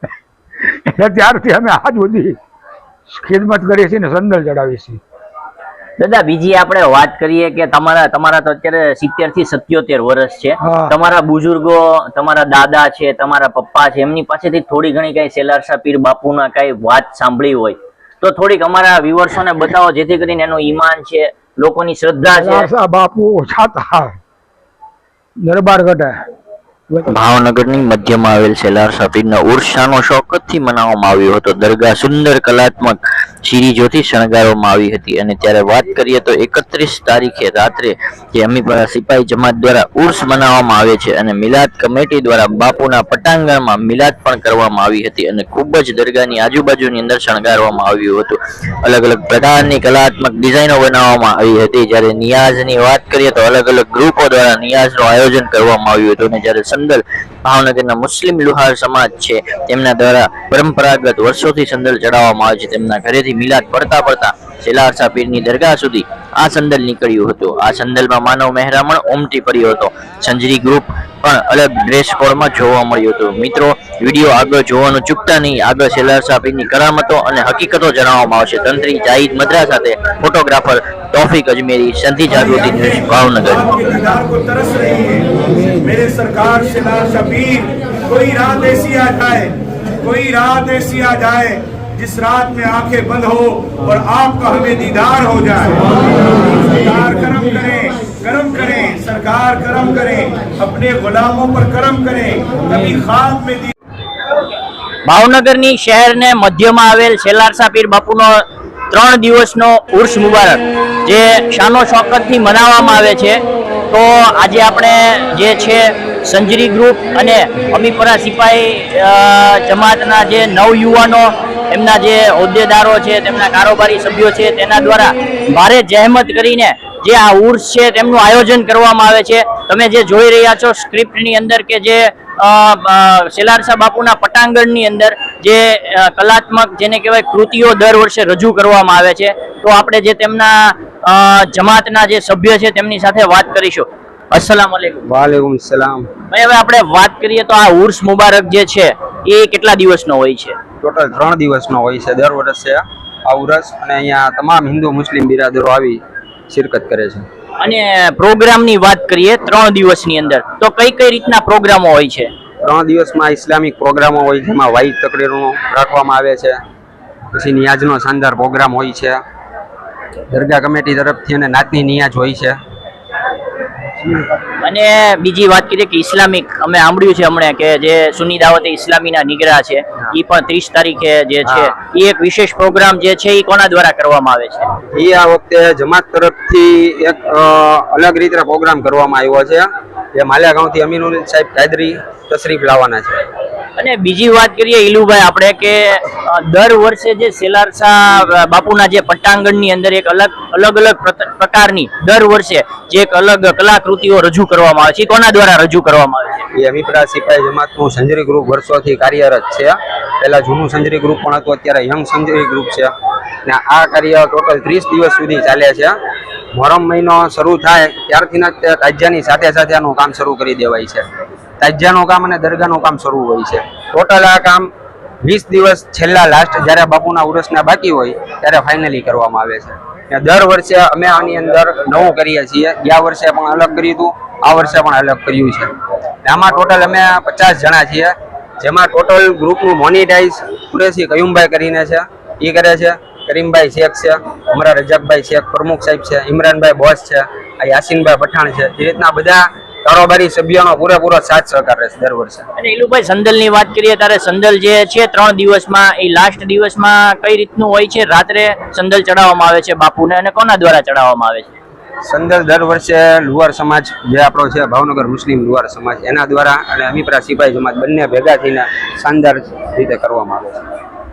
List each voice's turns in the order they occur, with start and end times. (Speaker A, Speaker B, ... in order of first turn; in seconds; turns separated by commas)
Speaker A: 0.7-2.4, Speaker A: 3.1-5.0, Speaker B: 6.0-22.7, Speaker A: 10.6-11.0, Speaker A: 22.3-24.1, Speaker A: 25.4-26.1, Speaker B: 27.1-83.9, Speaker C: 82.3-103.7, Speaker B: 105.0-145.1, Speaker D: 145.1-146.1, Speaker B: 146.3-150.6, Speaker D: 150.8-157.3, Speaker B: 157.6-162.3, Speaker D: 162.6-166.6, Speaker D: 167.3-169.2, Speaker D: 170.3-172.6, Speaker B: 174.6-184.7, Speaker D: 181.4-181.7, Speaker D: 184.9-193.2, Speaker B: 193.8-206.5, Speaker D: 206.6-212.9, Speaker D: 213.4-216.0, Speaker D: 216.5-221.1, Speaker D: 221.6-224.7, Speaker D: 225.2-235.7, Speaker D: 236.2-252.5, Speaker B: 252.6-261.6, Speaker D: 262.1-270.6